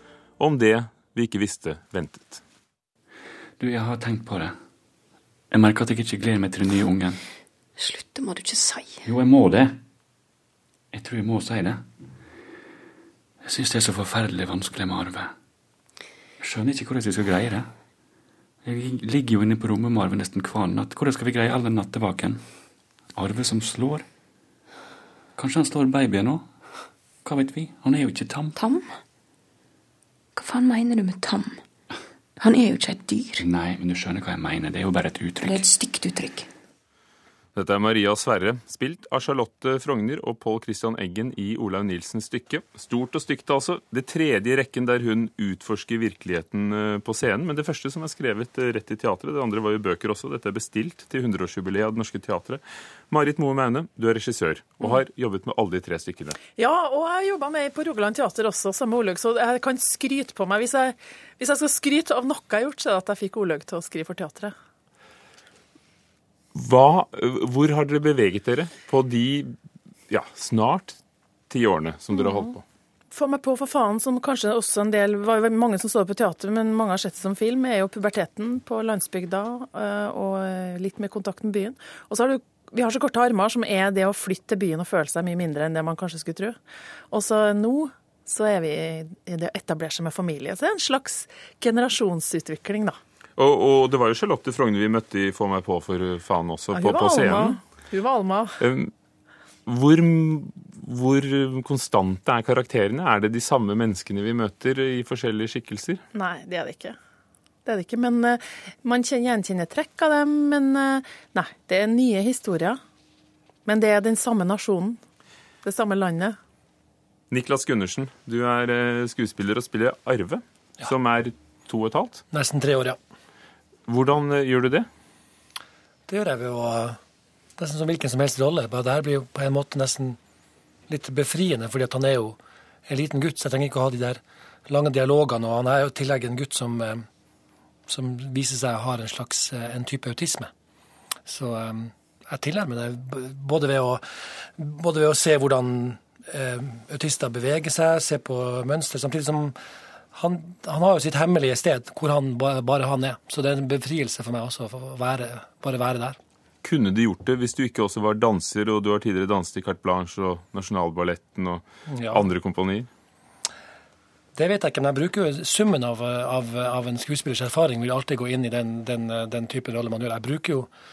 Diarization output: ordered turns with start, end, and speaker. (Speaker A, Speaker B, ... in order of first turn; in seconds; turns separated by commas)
Speaker A: 0.4-2.4, Speaker B: 3.6-4.5, Speaker B: 5.5-7.2, Speaker C: 7.8-9.0, Speaker B: 9.0-9.8, Speaker B: 10.9-11.8, Speaker B: 13.4-15.3, Speaker B: 16.4-17.7, Speaker B: 18.6-22.4, Speaker B: 23.1-24.1, Speaker B: 25.4-26.5, Speaker B: 27.2-28.6, Speaker C: 28.6-28.9, Speaker C: 30.4-31.6, Speaker C: 32.4-33.4, Speaker B: 33.4-35.7, Speaker C: 35.4-36.5, Speaker A: 37.5-56.4, Speaker D: 56.6-64.5, Speaker A: 66.5-69.5, Speaker A: 70.1-71.0, Speaker A: 71.5-72.6, Speaker D: 73.1-86.5, Speaker D: 87.1-92.9, Speaker A: 93.4-97.6, Speaker D: 96.7-98.6, Speaker A: 98.6-98.9, Speaker A: 99.7-106.0, Speaker D: 106.1-107.0, Speaker D: 107.7-112.8, Speaker D: 113.7-115.0, Speaker D: 115.6-116.4, Speaker A: 117.3-122.2, Speaker E: 122.3-123.0, Speaker A: 123.9-124.9, Speaker E: 126.1-127.0, Speaker E: 127.6-130.2, Speaker E: 130.9-137.1, Speaker E: 137.9-140.5, Speaker E: 141.3-149.6, Speaker E: 150.1-156.2, Speaker A: 156.6-162.9, Speaker E: 161.9-162.3, Speaker E: 164.3-170.7